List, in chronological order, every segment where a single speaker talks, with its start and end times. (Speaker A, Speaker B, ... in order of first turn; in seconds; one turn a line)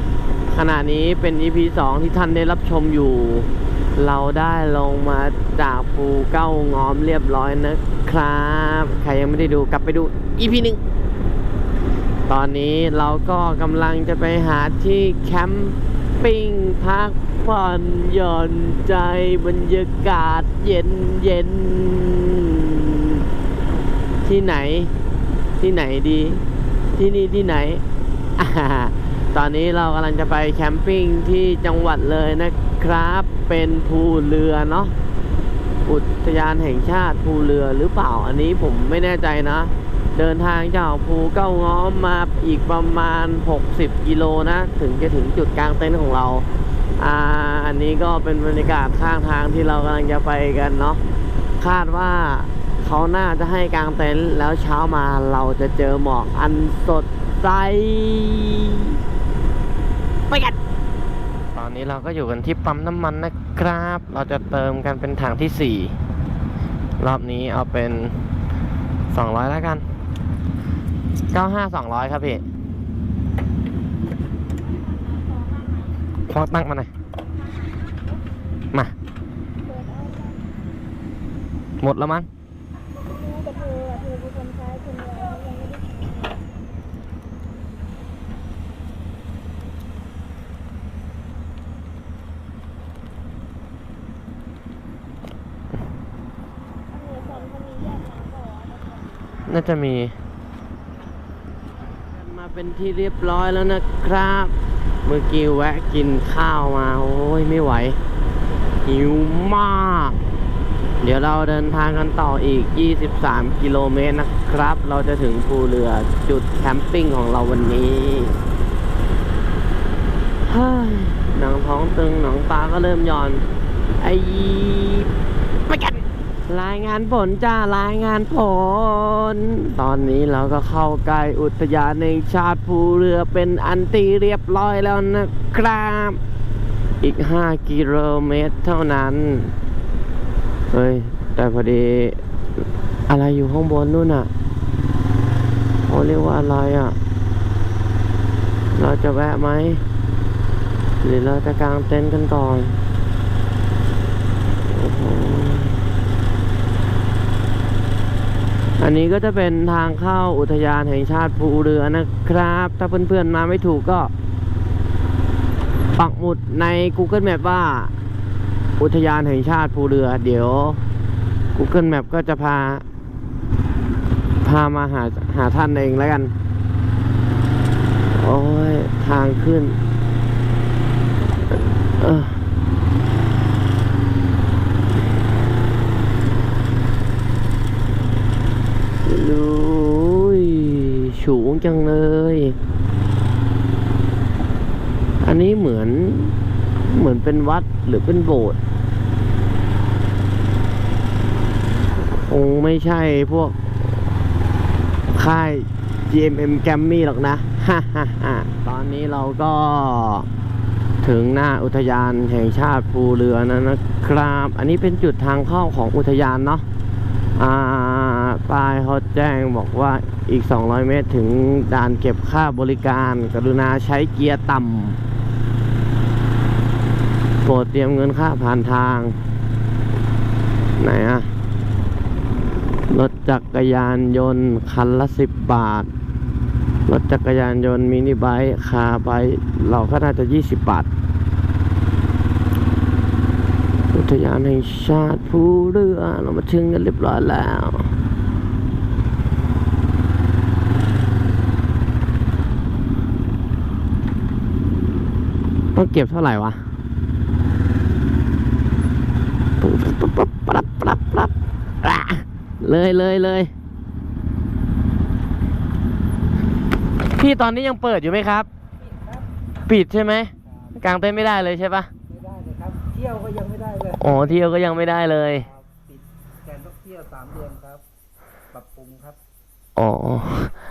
Speaker A: 0.5-10.8
Speaker A: 12.3-23.0
Speaker A: 24.2-24.9
Speaker A: 25.6-26.4
Speaker A: 27.0-27.8
Speaker A: 28.4-34.9
Speaker A: 35.9-46.5
Speaker A: 47.0-51.0
Speaker A: 51.6-58.7
Speaker A: 60.3-60.6
Speaker A: 61.5-66.0
Speaker A: 67.0-68.2
Speaker A: 69.1-69.8
Speaker A: 71.3-72.4
Speaker B: 74.9-75.9
Speaker A: 76.3-76.9
Speaker B: 79.6-80.4
Speaker A: 81.8-82.3
Speaker B: 83.0-86.3
Speaker B: 96.9-99.4
Speaker A: 99.5-100.1
Speaker A: 102.1-104.5
Speaker A: 105.0-108.0
Speaker A: 108.8-110.2
Speaker A: 111.0-118.3
Speaker A: 120.5-123.4
Speaker A: 124.0-125.1
Speaker A: 125.7-136.2
Speaker A: 137.0-139.5
Speaker A: 140.7-142.2
Speaker A: 143.1-144.3
Speaker A: 145.8-147.0
Speaker A: 148.7-149.8
Speaker A: 151.0-152.8
Speaker A: 154.7-155.8
Speaker A: 158.8-164.1
Speaker A: 166.0-167.9
Speaker A: 168.8-170.8
Speaker A: 171.6-172.8
Speaker A: 174.4-176.3
Speaker A: 178.1-179.8
Speaker A: 182.0-182.4
Speaker A: 189.1-192.6
Speaker A: 195.2-198.6
Speaker A: 202.2-203.6
Speaker A: 205.1-210.3
Speaker A: 211.0-216.7
Speaker A: 217.4-225.0
Speaker A: 227.4-229.2
Speaker A: 230.8-231.3
Speaker A: 232.9-235.9
Speaker A: 236.9-240.9
Speaker A: 243.9-247.9
Speaker A: 255.8-256.6
Speaker A: 259.6-261.3
Speaker A: 261.8-263.5
Speaker A: 267.1-268.5
Speaker C: 268.8-269.3
Speaker A: 269.7-271.9
Speaker C: 270.4-270.8
Speaker C: 272.1-274.5
Speaker A: 274.0-275.5
Speaker C: 275.4-277.8
Speaker C: 278.5-279.2
Speaker A: 279.8-280.6